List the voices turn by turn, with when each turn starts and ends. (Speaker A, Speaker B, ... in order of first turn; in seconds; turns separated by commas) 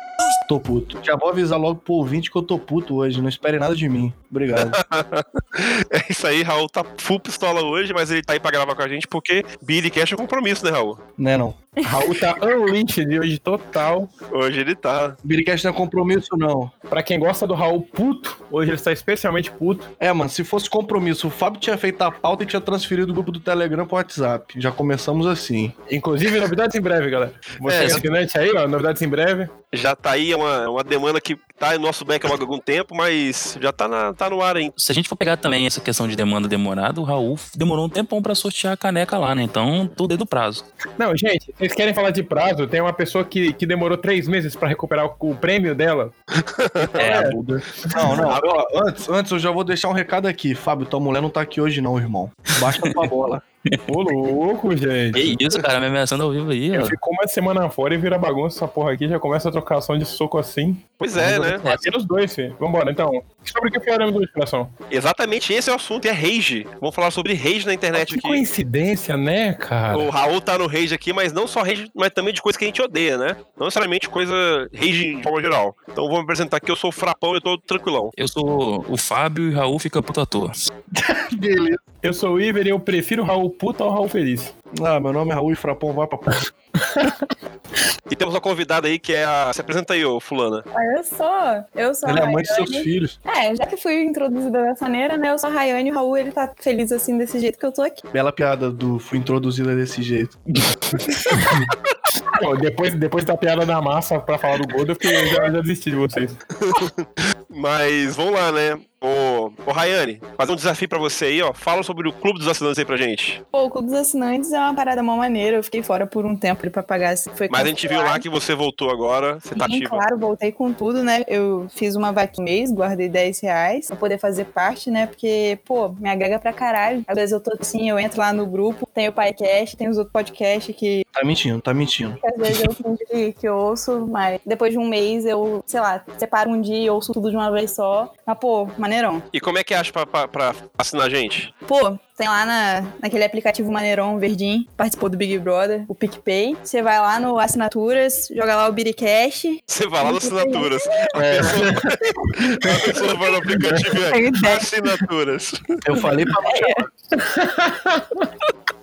Speaker A: 0.5-4.8, Speaker B: 4.5-11.0, Speaker A: 11.2-11.6, Speaker C: 11.8-12.0, Speaker D: 11.8-14.1, Speaker B: 14.3-15.2, Speaker A: 15.2-16.7, Speaker D: 16.9-19.9, Speaker A: 20.0-25.7, Speaker D: 25.9-29.5, Speaker B: 27.6-28.0, Speaker E: 27.7-28.0, Speaker B: 29.7-34.7, Speaker E: 34.8-40.6, Speaker D: 41.0-46.1, Speaker B: 46.4-47.0, Speaker A: 46.8-53.4, Speaker E: 47.0-47.4, Speaker D: 47.0-48.1, Speaker B: 48.2-48.5, Speaker D: 53.9-55.4, Speaker E: 55.1-57.0, Speaker D: 56.7-60.8, Speaker B: 61.0-61.6, Speaker E: 61.1-61.8, Speaker D: 61.6-64.7, Speaker B: 64.9-68.4, Speaker D: 67.9-70.1, Speaker B: 69.9-78.1, Speaker E: 78.2-80.5, Speaker A: 80.9-81.8, Speaker D: 82.0-84.5, Speaker A: 84.8-86.5, Speaker D: 86.8-87.2, Speaker B: 88.1-90.6, Speaker C: 90.7-98.0, Speaker A: 92.0-93.2, Speaker A: 98.1-100.4, Speaker D: 101.2-101.7, Speaker D: 102.3-106.4, Speaker B: 106.6-113.4, Speaker C: 113.5-118.2, Speaker B: 117.5-120.0, Speaker C: 119.5-131.0, Speaker A: 131.1-132.2, Speaker C: 132.2-139.2, Speaker B: 139.3-141.5, Speaker C: 141.7-151.1, Speaker B: 149.7-155.8, Speaker D: 151.1-152.9, Speaker D: 153.5-153.8, Speaker C: 154.1-154.7, Speaker A: 155.8-156.9, Speaker C: 156.4-156.8, Speaker D: 157.2-158.3